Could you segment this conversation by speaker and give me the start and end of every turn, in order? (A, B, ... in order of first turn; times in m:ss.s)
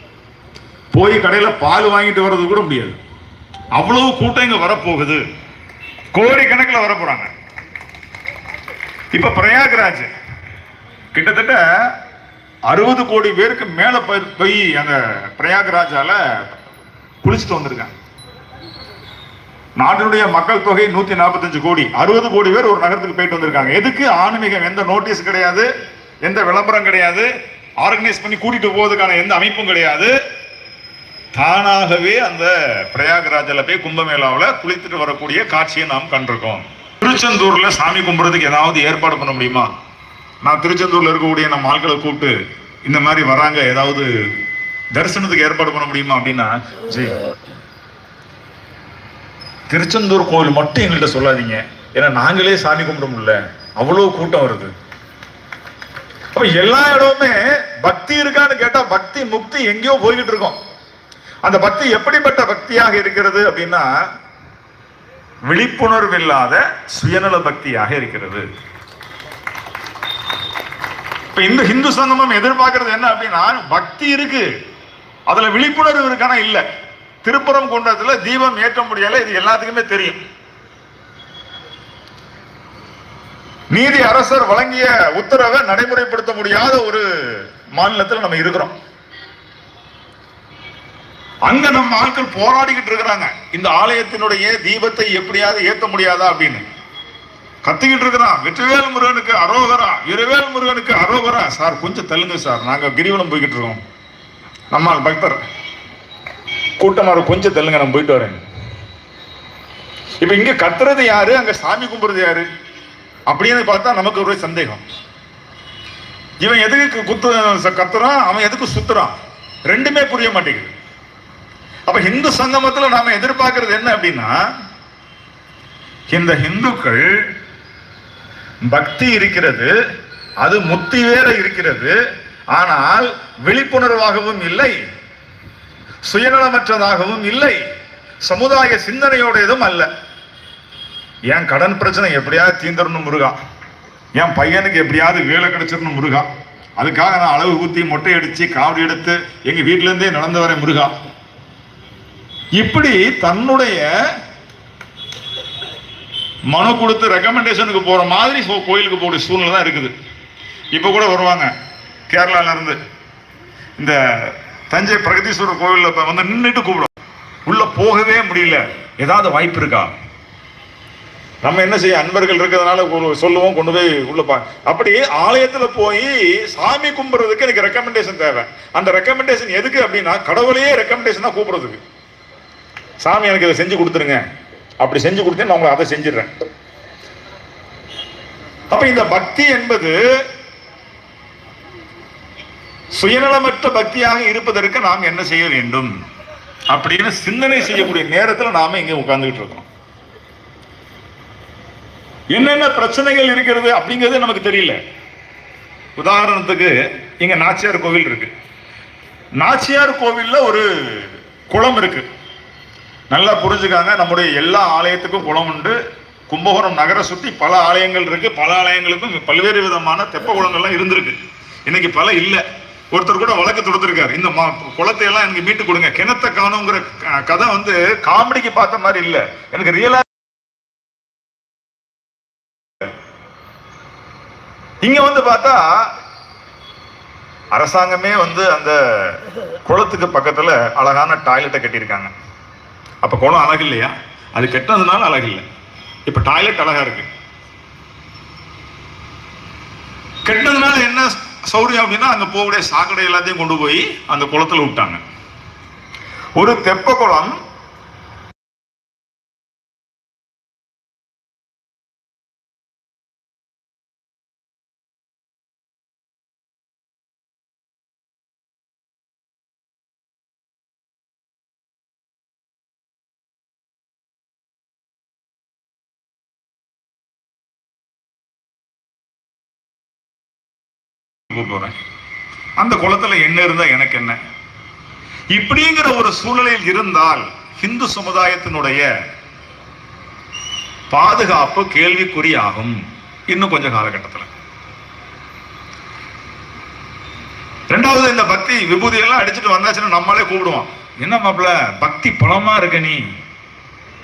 0:00.9-0:03.0 A
0:03.7-0:05.2 A
0:06.1-0:07.3 A
0:09.1-0:10.1 A
0:11.1-0:11.6 A
0:12.7-0:16.2 A
0:17.2-0:17.9 A
0:19.8-0:25.7 A
0:26.2-0:27.3 A
0:27.8-0:30.1 A
0:31.3-0:39.7 A
0:40.4-0:44.1 A
0:44.9-0:47.2 A
0:49.7-0:54.7 A
0:56.3-1:00.6 A
1:01.4-1:03.9 A
1:05.5-1:08.4 A
1:11.3-1:14.5 A
1:15.3-1:16.6 A
1:17.2-1:20.2 A
1:23.7-1:28.7 A
1:31.4-1:36.6 A
1:37.6-1:43.8 A
1:44.7-1:45.4 A
1:46.8-1:48.4 A
1:50.2-1:52.4 A
1:53.3-1:54.8 A
1:56.4-1:59.1 A
1:59.7-2:00.7 A
2:01.9-2:04.3 A
2:06.1-2:07.1 A
2:08.7-2:09.7 A
2:10.4-2:11.9 A
2:12.5-2:14.8 A
2:16.0-2:17.6 A
2:18.2-2:19.9 A
2:21.3-2:23.4 A
2:24.2-2:26.3 A
2:26.8-2:30.9 A
2:32.6-2:33.8 A
2:36.5-2:39.9 A
2:40.7-2:41.5 A
2:42.1-2:42.8 A
2:43.8-2:46.9 A
2:47.4-2:49.9 A
2:51.4-3:01.8 A
3:03.0-3:04.2 A
3:04.8-3:06.3 A
3:08.7-3:10.0 A
3:12.9-3:15.9 A
3:16.7-3:19.6 A
3:22.3-3:24.8 A
3:26.0-3:28.3 A
3:29.4-3:32.0 A
3:33.1-3:35.8 A
3:36.3-3:50.0 A
3:54.8-3:55.9 A
3:57.5-4:02.1 A
4:03.0-4:05.4 A
4:06.1-4:07.1 A
4:10.2-4:15.0 A
4:16.4-4:17.3 A
4:41.3-4:41.7 A
4:42.6-4:44.2 A
4:45.3-4:48.9 A
4:50.9-4:54.3 A
4:57.7-5:03.0 A